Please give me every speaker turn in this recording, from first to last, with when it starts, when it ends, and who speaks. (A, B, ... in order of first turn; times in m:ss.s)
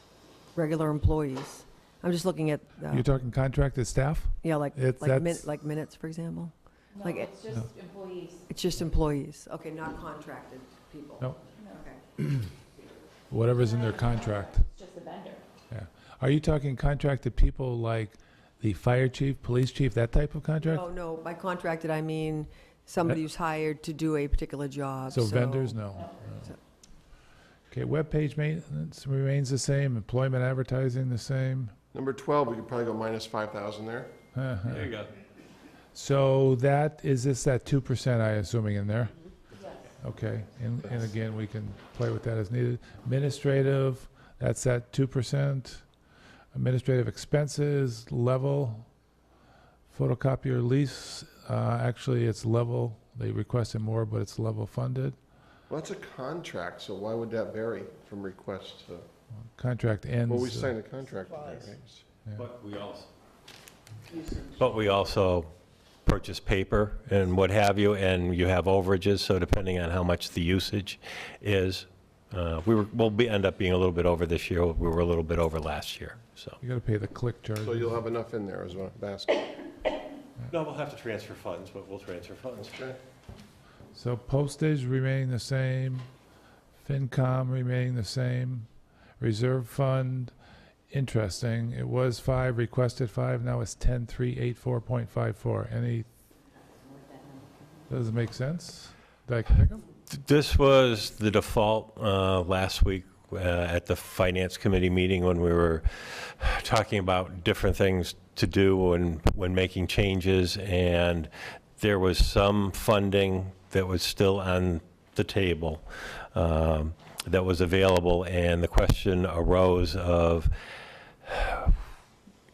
0:00.6-0:03.1 A
0:02.9-0:05.5 B
0:04.4-0:07.3 A
0:06.9-0:08.4 C
0:08.5-0:12.0 A
0:11.6-0:11.8 C
0:13.3-0:14.6 B
0:13.5-0:15.4 C
0:15.7-0:20.9 B
0:20.6-0:25.8 A
0:25.1-0:26.4 B
0:25.8-0:26.1 C
0:27.7-0:31.7 B
0:31.9-0:34.1 D
0:34.4-0:34.9 B
0:34.6-0:35.1 E
0:36.0-0:39.2 B
0:39.5-0:39.9 C
0:40.0-0:45.8 B
0:46.5-0:48.9 B
0:49.9-0:55.2 B
0:55.7-0:59.1 D
0:59.6-1:00.7 B
1:00.3-1:02.0 D
1:02.4-1:03.1 E
1:04.4-1:05.5 E
1:06.0-1:16.6 E
1:16.6-1:18.0 B
1:17.6-1:19.4 D
1:20.5-1:22.8 E
1:23.9-1:26.1 B
1:26.8-1:30.3 B
1:30.9-1:36.1 B
1:37.9-1:39.8 B
1:40.1-2:00.5 E
2:01.2-2:01.8 E